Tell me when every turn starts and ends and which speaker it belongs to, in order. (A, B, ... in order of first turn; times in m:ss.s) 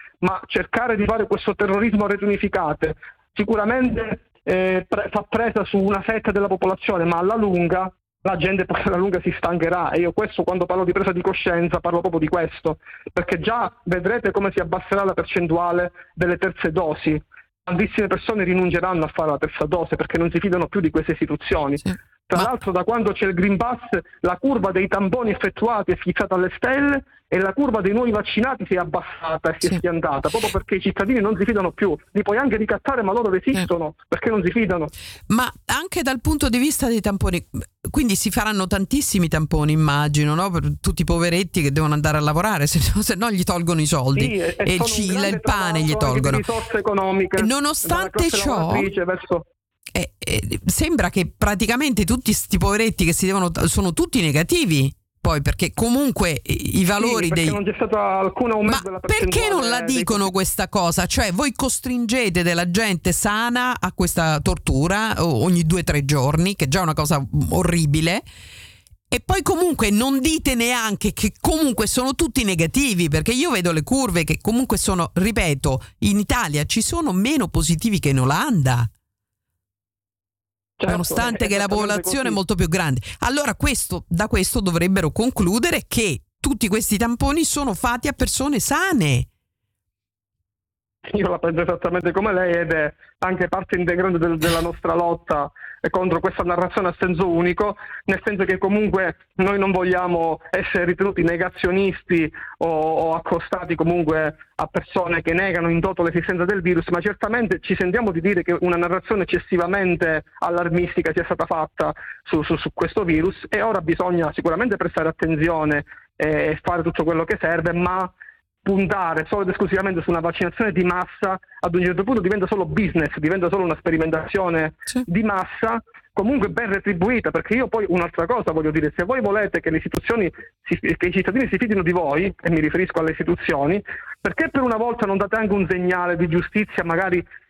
0:00.2-0:34.9 A
0:35.3-0:46.4 B
0:44.2-0:49.5 A
0:47.4-0:48.9 B
0:49.9-0:57.6 B
0:57.0-1:00.3 A
0:58.7-1:08.2 B
1:09.1-1:18.9 B
1:20.8-1:22.4 A
1:20.8-1:29.3 B
1:31.0-1:58.1 A
1:58.6-2:17.2 A